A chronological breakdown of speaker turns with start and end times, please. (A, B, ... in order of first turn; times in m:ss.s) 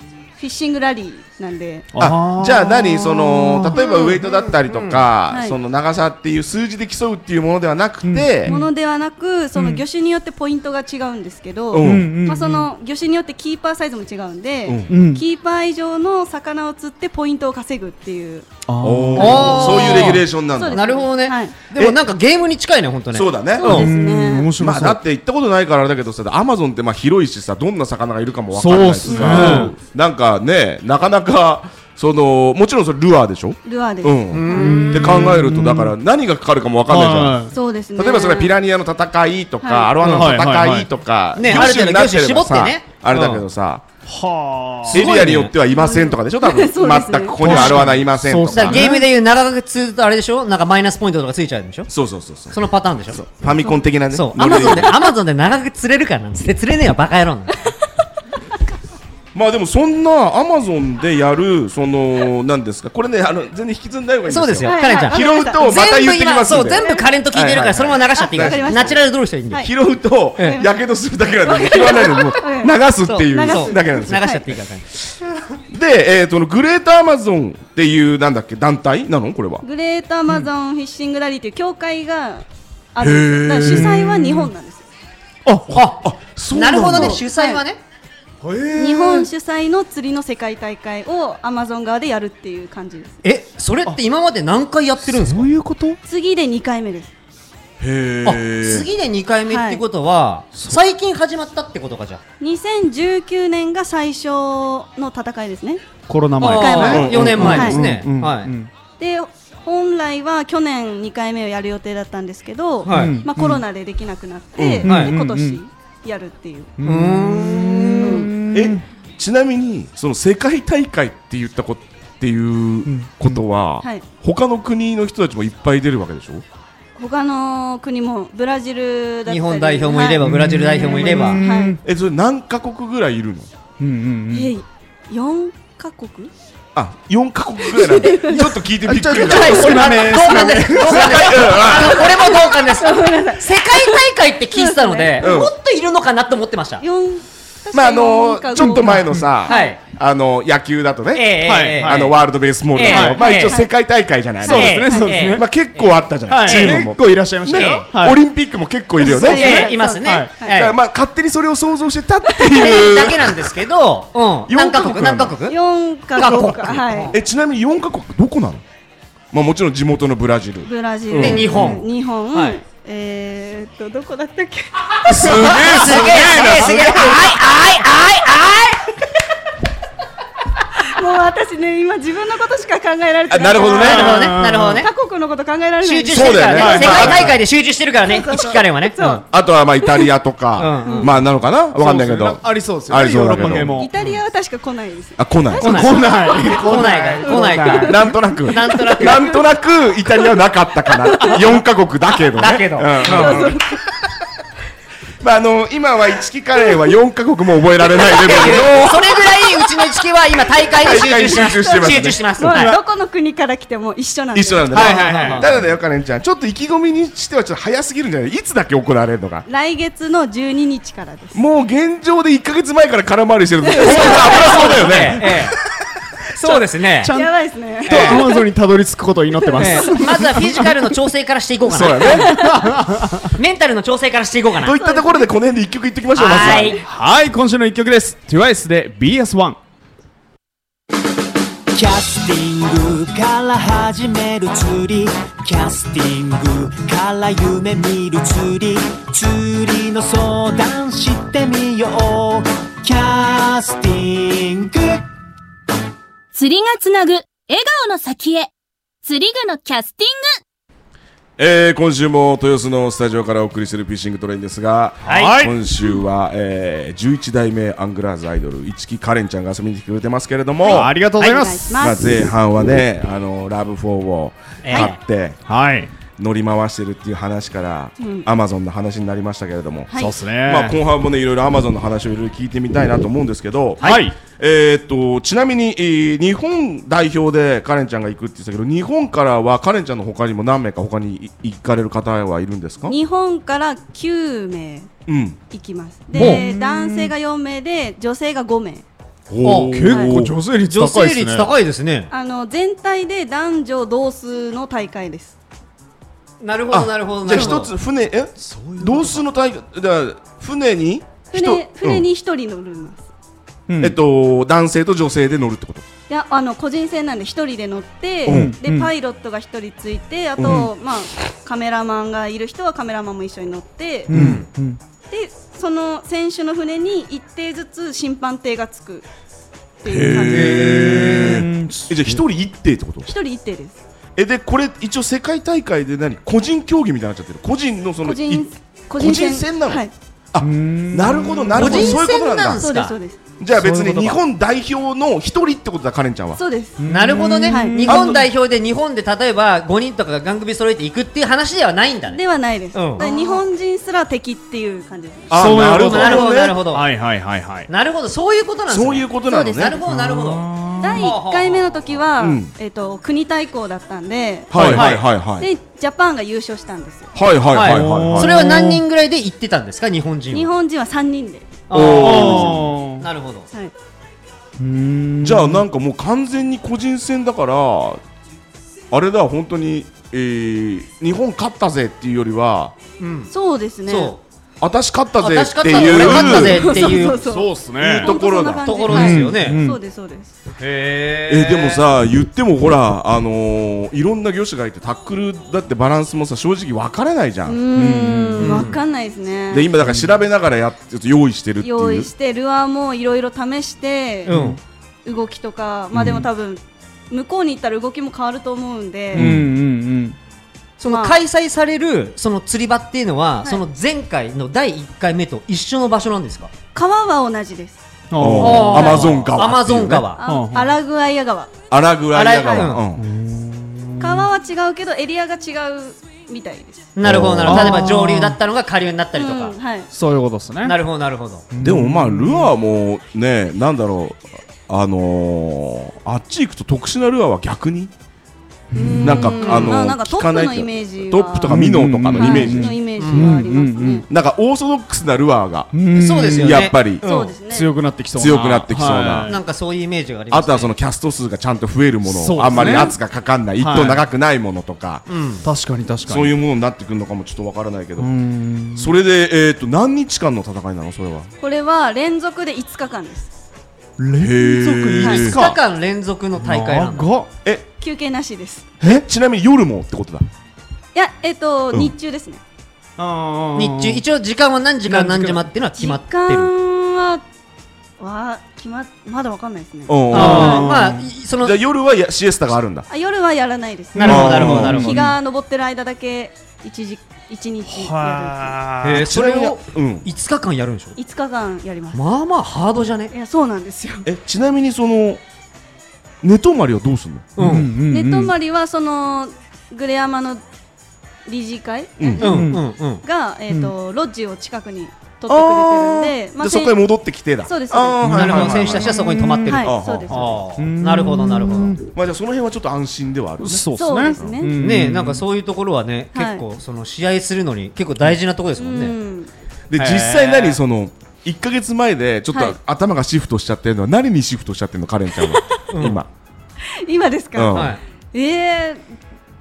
0:00.4-0:01.9 A
0:01.9-0:03.8 B
0:02.0-0:08.5 C
0:03.7-0:05.0 D
0:05.3-0:05.6 A
0:08.0-0:08.7 B
0:08.5-0:18.5 A
0:09.6-0:09.8 B
0:11.7-0:12.1 C
0:11.8-0:12.7 B
0:14.6-0:14.9 C
0:14.9-0:15.2 B
0:18.7-0:19.6 B
0:18.8-0:21.0 C
0:19.1-0:21.5 A
0:19.2-0:23.9 D
0:21.7-0:22.0 C
0:23.1-0:23.9 C
0:23.5-0:24.5 A
0:23.6-0:25.0 B
0:24.6-0:43.8 C
0:28.5-0:29.7 B
0:29.1-0:29.7 A
0:29.3-0:29.7 D
0:33.6-0:35.3 A
0:34.3-0:35.1 D
0:34.5-0:35.9 B
0:36.9-0:37.5 B
0:37.5-0:38.5 A
0:39.6-0:40.0 A
0:40.0-0:40.3 D
0:40.1-0:40.9 B
0:41.4-0:43.4 D
0:44.1-0:45.2 B
0:44.9-0:45.5 D
0:44.9-0:49.0 C
0:45.2-0:47.9 A
0:47.4-0:49.0 B
0:48.5-0:51.9 D
0:51.9-0:54.9 C
0:52.5-0:53.2 D
0:54.1-0:57.7 D
0:59.3-1:09.0 C
1:04.3-1:09.7 D
1:04.6-1:05.9 A
1:06.7-1:07.1 A
1:08.1-1:09.0 A
1:09.6-1:14.4 C
1:10.4-1:10.6 D
1:10.4-1:10.7 A
1:11.4-1:14.5 A
1:13.1-1:14.8 D
1:15.7-1:19.6 C
1:19.6-1:24.8 A
1:23.0-1:24.0 C
1:23.6-1:24.5 B
1:25.7-1:27.2 C
1:25.7-1:26.0 D
1:26.5-1:27.8 D
1:26.9-1:27.6 A
1:28.4-1:29.3 B
1:28.8-1:33.1 A
1:33.2-1:35.5 D
1:35.0-1:36.0 B
1:36.0-1:37.1 A
1:37.8-1:38.9 C
1:38.2-1:42.2 D
1:39.5-1:39.8 A
1:42.4-1:45.8 A
1:46.1-1:48.7 B
1:46.4-1:48.5 D
1:46.4-1:47.8 A
1:46.9-1:48.0 C
1:49.0-1:56.7 A
1:52.8-1:53.2 D
1:52.8-1:53.6 B
1:54.6-1:54.9 C
1:54.8-1:55.6 B
1:54.8-1:55.1 D
1:56.8-1:58.8 B
1:56.8-1:58.3 D
1:58.0-1:58.3 A
1:58.5-2:06.4 C
2:02.8-2:03.4 B
2:07.0-2:11.8 A
2:09.3-2:11.4 D
2:10.2-2:11.8 B
2:11.8-2:13.5 C
2:13.8-2:14.5 B
2:14.3-2:16.3 A
2:16.7-2:20.0 C
2:17.6-2:18.6 A
2:18.8-2:21.4 B
2:19.1-2:26.8 D
2:20.7-2:22.2 C
2:21.6-2:24.0 A
2:24.5-2:25.4 A
2:25.2-2:25.5 C
2:26.8-2:29.8 A
2:27.7-2:39.7 C
2:28.6-2:29.3 B
2:29.5-2:29.8 D
2:31.1-2:32.2 D
2:31.4-2:32.0 B
2:32.7-2:33.6 D
2:32.9-2:33.2 B
2:33.3-2:33.7 A
2:34.4-2:35.4 B
2:34.4-2:35.9 D
2:34.8-2:35.2 A
2:36.3-2:38.2 B
2:36.4-2:36.8 D
2:37.5-2:37.9 D
2:39.0-2:40.6 A
2:39.2-2:40.7 D
2:40.0-2:40.3 B
2:40.5-2:43.6 C
2:42.3-2:42.6 A
2:42.5-2:45.6 D
2:44.5-2:45.4 C
2:45.5-2:47.1 A
2:46.1-2:47.1 D
2:47.1-2:48.6 C
2:49.3-2:51.8 C
2:50.6-2:56.9 A
2:51.2-2:52.6 D
2:51.4-2:51.7 B
2:55.0-2:57.4 C
2:55.2-2:59.0 D
3:00.8-3:07.3 A
3:03.3-3:04.3 C
3:03.6-3:04.9 D
3:03.7-3:04.8 B
3:05.8-3:09.2 D
3:06.1-3:07.4 C
3:06.6-3:07.3 B
3:08.0-3:09.2 A
3:09.3-3:13.7 C
3:10.6-3:11.1 D
3:10.8-3:11.1 A
3:11.8-3:14.2 B
3:13.4-3:15.2 A
3:15.2-3:15.9 C
3:15.6-3:19.4 D
3:15.6-3:18.1 B
3:16.0-3:19.4 A
3:17.8-3:24.0 C
3:21.0-3:21.4 A
3:22.4-3:23.5 D
3:23.0-3:23.7 A
3:25.2-3:29.7 C
3:28.0-3:32.8 D
3:30.6-3:32.2 C
3:31.7-3:34.9 A
3:34.3-3:39.4 C
3:34.7-3:35.5 B
3:34.7-3:35.5 D
3:39.4-3:41.4 A
3:41.3-3:45.5 C
3:43.6-3:44.7 A
3:43.8-3:45.6 D
3:46.3-3:47.1 D
3:46.4-3:47.3 B
3:47.1-3:48.4 A
3:47.8-3:50.7 B
3:47.9-3:48.2 D
3:49.4-3:50.0 A
3:49.6-3:52.2 D
3:51.6-3:52.4 C
3:52.1-3:52.6 A
3:52.3-3:53.3 B
3:53.3-3:54.8 D
3:54.6-3:56.8 C
3:54.6-3:55.3 A
3:56.1-3:56.8 D
3:56.8-3:59.6 B
4:01.7-4:15.0 E
4:16.3-4:18.5 F
4:19.0-4:20.4 F
4:21.4-4:30.9 C
4:25.0-4:25.4 D
4:25.0-4:25.6 B
4:30.6-4:32.3 A
4:30.6-4:31.8 B
4:31.8-4:35.4 C
4:34.6-4:35.0 D
4:35.5-4:35.9 B
4:36.2-4:53.0 C
4:38.0-4:38.2 A
4:39.9-4:40.2 A
4:39.9-4:40.8 B
4:43.8-4:44.1 D
4:43.8-4:44.1 B
4:52.8-4:54.9 A
4:55.1-4:55.4 C
4:55.5-4:58.8 A
4:56.1-4:57.1 B
4:56.2-4:56.4 D
4:59.3-5:00.4 C
4:59.4-4:59.8 D
4:59.6-5:01.5 B
5:00.6-5:02.1 D
5:02.1-5:05.3 A
5:06.4-5:07.7 D
5:06.7-5:12.0 C
5:08.4-5:09.2 B
5:11.3-5:13.0 A
5:13.7-5:14.0 B
5:13.8-5:15.8 C
5:16.1-5:24.1 A
5:18.2-5:18.5 C
5:18.3-5:18.9 B
5:20.4-5:20.7 C
5:24.1-5:24.8 B
5:24.1-5:24.4 D
5:25.1-5:29.0 A
5:29.8-5:30.9 A
5:29.8-5:33.1 C
5:30.2-5:32.0 B
5:30.3-5:31.4 D
5:33.0-5:33.8 A
5:34.2-5:38.5 C
5:38.0-5:39.9 A
5:39.0-5:42.7 C
5:40.4-5:42.0 B
5:41.5-5:43.0 D
5:42.6-5:43.2 A
5:43.4-5:46.4 C
5:43.5-5:44.2 B
5:46.4-5:46.8 A
5:46.8-5:48.2 B
5:46.9-5:52.2 D
5:47.5-5:48.0 A
5:47.9-5:48.3 C
5:52.1-5:55.5 A
5:52.7-5:53.4 D
5:55.3-5:56.6 C
5:55.3-5:57.7 B
5:55.7-5:56.9 D
5:57.7-6:00.4 D
5:58.7-5:59.8 C
5:59.3-5:59.8 A
5:59.8-6:01.1 B
6:00.8-6:04.6 A
6:01.0-6:02.0 D
6:02.2-6:02.5 C
6:04.5-6:05.5 C
6:04.5-6:04.8 B
6:04.6-6:05.0 D
6:05.4-6:07.1 A
6:07.1-6:08.5 C
6:07.5-6:10.5 D
6:07.6-6:08.8 B
6:10.3-6:11.5 A
6:11.7-6:13.5 D
6:11.7-6:12.7 C
6:11.9-6:13.1 B
6:14.6-6:15.6 B
6:15.2-6:18.0 C
6:18.9-6:22.7 C
6:23.0-6:23.3 D
6:23.3-6:24.2 A
6:23.9-6:24.2 D
6:24.6-6:26.6 C
6:25.2-6:27.3 D
6:26.0-6:30.3 A
6:26.3-6:28.1 B
6:27.8-6:28.7 C
6:28.6-6:29.6 D
6:28.9-6:29.8 B
6:30.6-6:31.8 D
6:31.3-6:37.6 C
6:37.4-6:39.7 A
6:37.7-6:38.7 B
6:38.4-6:38.8 D
6:39.5-6:42.1 C
6:39.8-6:40.1 B
6:41.6-6:44.4 A
6:44.3-6:44.6 D
6:44.3-6:44.6 B
6:45.0-6:49.3 A
6:45.9-6:46.2 B
6:49.1-6:49.5 C
6:49.1-6:50.2 B
6:50.8-6:56.5 D
6:50.8-6:51.2 A
6:56.7-6:57.8 A
6:58.1-6:59.0 B
6:58.2-7:00.1 C
6:58.4-7:00.2 D
6:58.7-6:59.2 A
7:00.2-7:01.5 A
7:00.2-7:00.7 B
7:01.7-7:03.0 C
7:02.1-7:02.8 D
7:02.9-7:04.3 B
7:04.0-7:06.8 A
7:07.0-7:09.6 D
7:07.0-7:07.8 C
7:07.4-7:08.4 B
7:09.1-7:09.9 A
7:09.9-7:10.8 B
7:10.6-7:11.4 D
7:11.5-7:12.5 B
7:11.6-7:17.9 C
7:18.7-7:19.4 B
7:18.7-7:21.6 A
7:19.0-7:22.8 C
7:19.4-7:19.7 D
7:21.5-7:24.0 B
7:22.1-7:24.0 A
7:23.0-7:23.5 D
7:24.1-7:25.7 C
7:25.7-7:26.7 B
7:25.9-7:27.3 D
7:26.4-7:27.0 C
7:27.0-7:27.7 A
7:27.5-7:29.4 B
7:28.1-7:29.3 C
7:29.3-7:30.7 D
7:30.3-7:35.0 C
7:32.1-7:32.9 B
7:32.5-7:32.9 A
7:33.6-7:34.0 B
7:35.1-7:35.4 D
7:35.4-7:36.3 B
7:36.0-7:38.1 C
7:38.0-7:38.9 B
7:38.7-7:41.3 C
7:41.4-7:43.3 A
7:44.0-7:45.6 B
7:44.2-7:45.4 C
7:45.0-7:47.1 D
7:46.4-7:47.3 B
7:47.8-7:48.7 A
7:48.8-7:50.2 C
7:50.9-7:52.4 A
7:53.0-7:54.0 B
7:53.5-7:56.5 D
7:54.9-7:55.4 B
7:55.8-7:57.2 A
7:58.0-8:00.7 A
7:59.9-8:00.7 C
8:00.1-8:01.6 D
8:00.1-8:01.1 B
8:01.4-8:02.9 C
8:02.9-8:08.6 A
8:03.9-8:05.1 D
8:04.0-8:05.1 B
8:04.0-8:05.0 C
8:07.7-8:09.1 B
8:08.8-8:10.9 D
8:09.0-8:10.1 C
8:11.0-8:12.0 A
8:11.9-8:13.1 D
8:13.1-8:14.1 A
8:14.0-8:15.2 C
8:16.2-8:17.3 C
8:17.4-8:17.7 D
8:17.4-8:18.3 B
8:17.9-8:20.4 A
8:21.2-8:26.8 A
8:22.0-8:22.4 C
8:22.2-8:22.6 B
8:22.2-8:23.0 D
8:25.3-8:29.0 C
8:27.4-8:28.0 A
8:28.0-8:29.6 B
8:28.0-8:31.8 D
8:29.4-8:30.4 A
8:29.6-8:30.3 C
8:30.6-8:31.8 B
8:31.9-8:34.4 C
8:33.4-8:35.2 B
8:33.8-8:34.6 A
8:34.6-8:39.0 D
8:36.1-8:36.4 A
8:38.6-8:39.3 A
8:39.7-8:46.1 C
8:39.8-8:40.3 B
8:42.3-8:42.6 A
8:45.7-8:46.0 D
8:46.8-8:48.8 A
8:47.3-8:47.8 C
8:47.5-8:47.8 D